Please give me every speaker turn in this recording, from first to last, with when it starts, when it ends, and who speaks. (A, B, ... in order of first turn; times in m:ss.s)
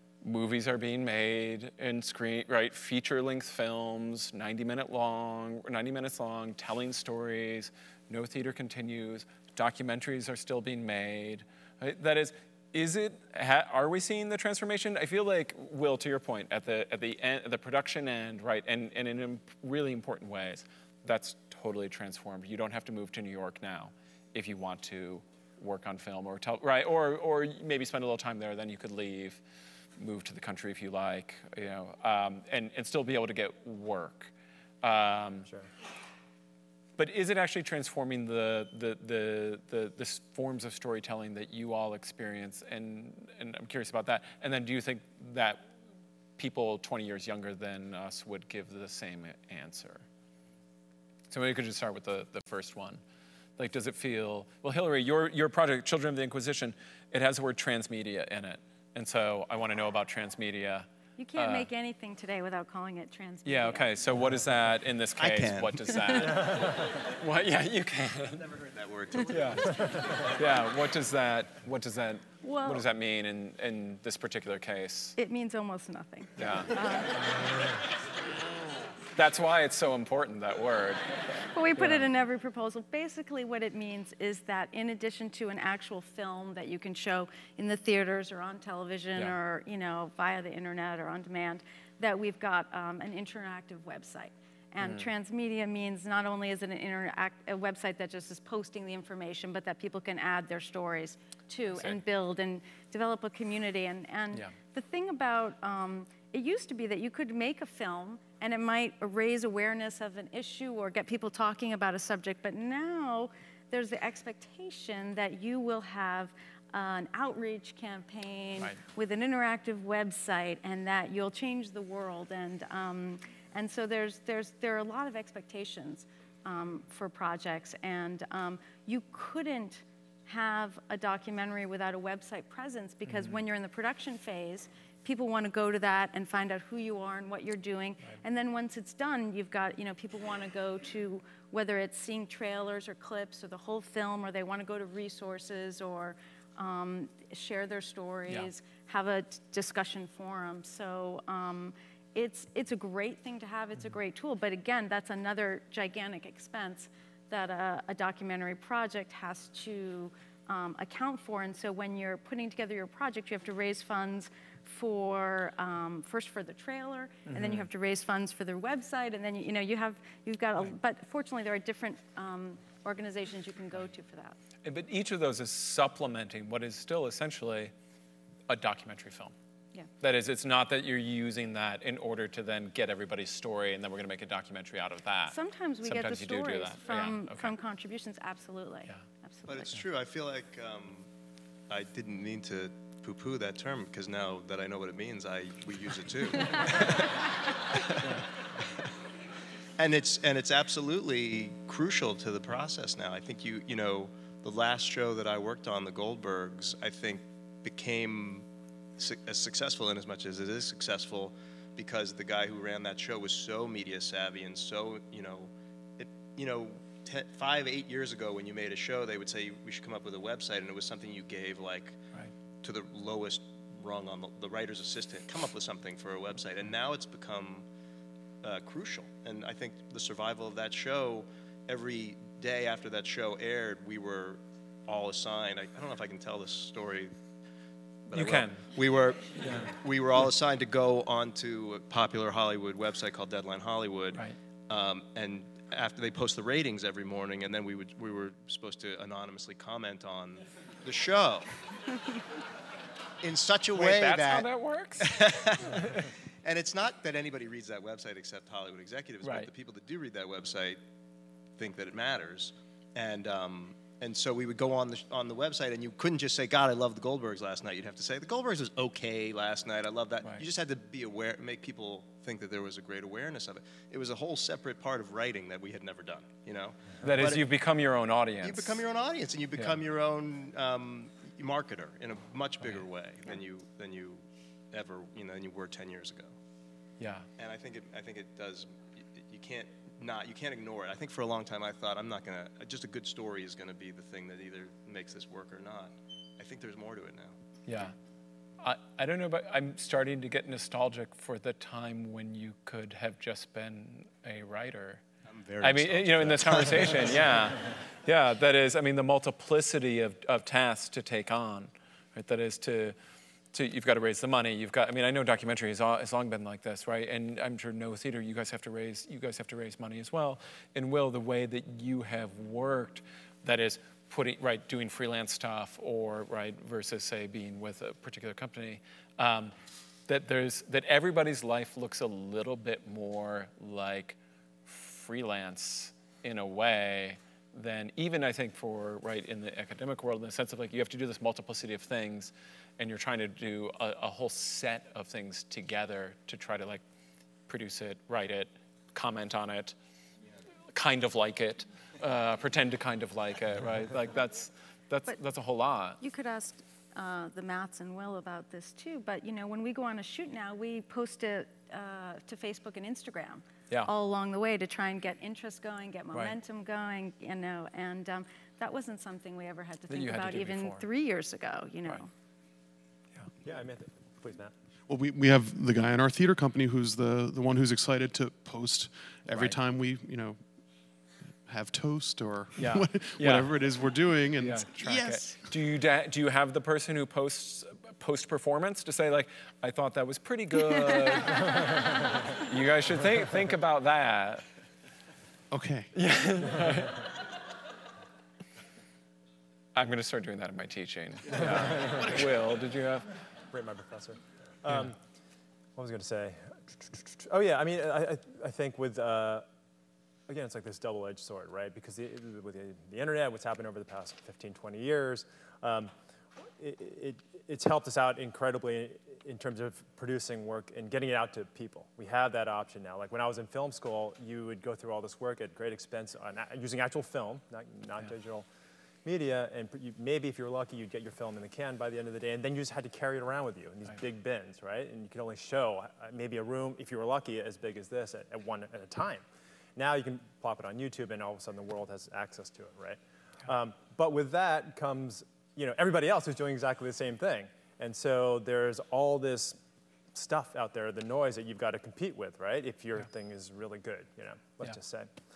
0:00.2-0:29.4 A
0:30.0-0:34.3 A
0:34.8-0:35.5 A
0:37.0-0:45.6 A
0:46.4-0:50.0 A
0:51.3-0:53.0 A
0:53.6-1:01.7 A
1:01.2-1:03.9 B
1:03.4-1:08.4 A
1:05.2-1:06.7 C
1:08.4-1:10.4 C
1:09.3-1:15.2 A
1:12.4-1:12.8 B
1:15.2-1:17.5 B
1:16.4-1:16.7 A
1:19.1-1:21.0 A
1:21.5-2:54.4 B
1:21.8-1:22.1 A
1:34.8-1:35.1 A
1:41.7-1:42.0 A
2:13.1-2:13.4 A
2:47.3-2:47.7 A
2:54.6-2:57.7 A
2:58.5-2:59.3 A
3:00.0-3:07.5 A
3:05.3-3:09.7 B
3:09.5-3:11.1 C
3:11.7-3:18.2 C
3:19.8-3:28.4 C
3:29.0-3:42.0 C
3:42.6-3:47.6 C
3:48.4-3:57.2 C
3:58.1-4:11.5 C
3:58.1-3:58.6 A
3:59.4-3:59.7 A
4:13.2-4:14.5 C
4:13.7-4:15.1 A
4:15.0-4:20.8 C
4:15.7-4:16.0 A
4:19.2-4:19.5 A
4:21.6-4:37.4 C
4:37.0-4:38.8 A
4:38.4-4:46.3 C
4:47.0-4:47.3 A
4:47.4-4:57.3 C
4:57.7-4:57.9 A
4:58.6-5:05.0 A
5:05.3-5:07.5 C
5:05.6-5:12.9 A
5:13.5-5:29.5 A
5:30.1-5:46.8 A
5:47.5-5:49.8 A
5:50.7-5:56.0 A
5:56.0-6:12.1 B
6:09.9-6:10.8 A
6:13.4-6:14.5 D
6:14.9-6:20.4 E
6:19.3-6:19.6 A
6:21.4-6:25.5 E
6:22.6-6:23.5 A
6:24.4-6:34.4 A
6:35.5-6:35.9 E
6:35.9-6:37.2 A
6:39.7-6:43.1 A
6:41.3-6:42.3 E
6:43.5-6:45.0 D
6:45.8-6:49.4 D
6:50.3-7:08.4 D
7:09.0-7:19.2 D
7:19.8-7:29.6 D
7:30.1-7:35.1 D